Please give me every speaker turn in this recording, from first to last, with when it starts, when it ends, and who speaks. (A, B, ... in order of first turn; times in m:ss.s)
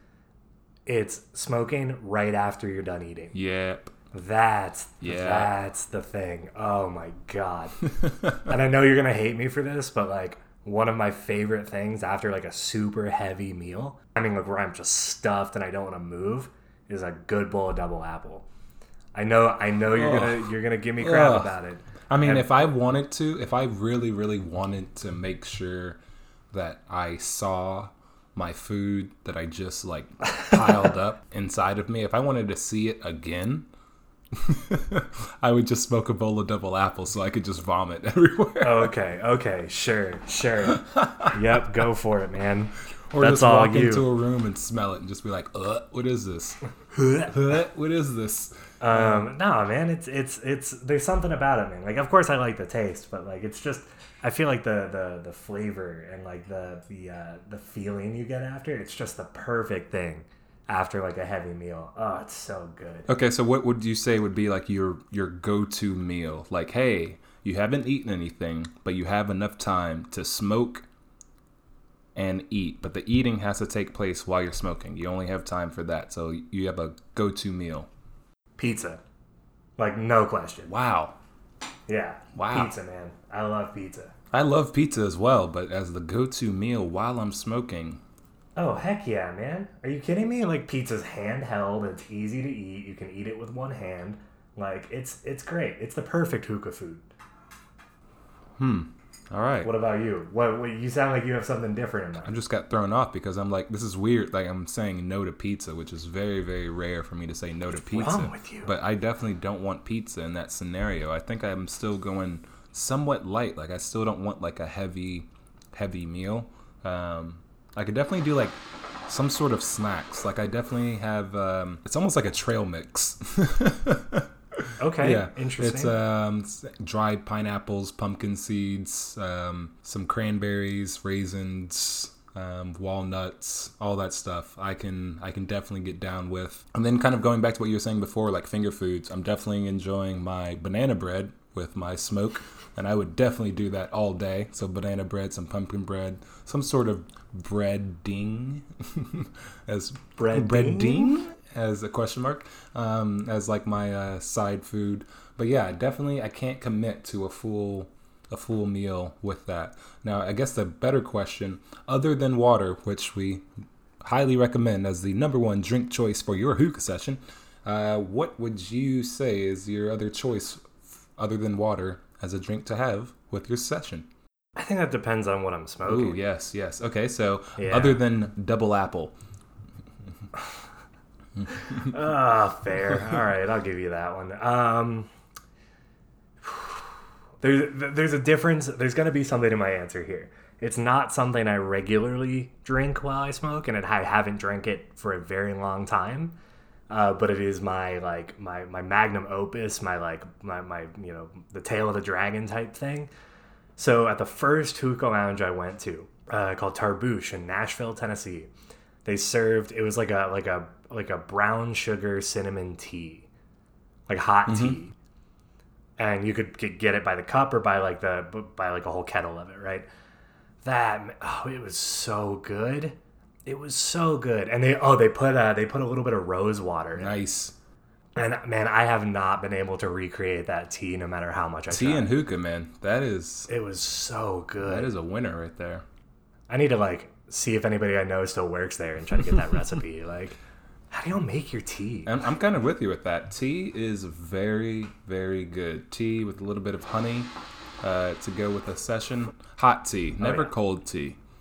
0:00.8-0:03.3 A
0:03.3-0:03.9 B
0:04.1-0:07.8 A
0:05.0-0:05.5 B
0:08.0-0:08.4 B
0:08.4-0:18.4 A
0:19.1-0:22.4 A
0:19.9-0:21.6 B
0:22.1-0:26.0 B
0:26.5-0:33.7 B
0:34.3-0:38.9 B
0:38.6-0:44.1 A
0:40.7-0:41.3 B
0:43.1-0:46.6 B
0:46.9-0:47.3 A
0:47.2-0:49.3 B
0:48.8-1:03.1 A
1:03.1-1:10.8 B
1:12.1-1:17.9 B
1:18.6-1:19.0 A
1:19.8-1:20.7 A
1:20.7-1:21.2 B
1:21.9-1:24.1 A
1:22.3-1:22.7 B
1:24.3-1:28.0 B
1:28.6-1:37.0 A
1:38.6-1:39.7 B
1:39.6-1:42.3 A
1:42.2-2:43.5 B
1:47.8-1:48.7 A
2:04.8-2:05.9 A
2:30.2-2:31.2 A
2:44.0-2:54.1 B
2:54.6-2:56.2 A
2:55.8-2:59.1 B
2:57.6-2:58.0 A
3:01.4-3:01.9 B
3:01.5-3:05.1 A
3:06.4-3:06.8 A
3:07.4-3:16.4 A
3:16.9-3:23.1 A
3:23.8-3:28.5 A
3:29.0-3:33.3 A
3:34.1-3:34.9 A
3:34.5-3:34.8 B
3:36.0-3:39.8 A
3:40.6-3:47.1 A
3:46.9-3:47.5 B
3:48.2-3:52.1 A
3:51.7-3:53.5 B
3:53.5-3:54.9 A
3:54.6-3:55.8 B
3:56.5-4:00.4 A
4:00.9-4:02.1 A
4:02.0-4:11.2 B
4:10.2-4:10.5 A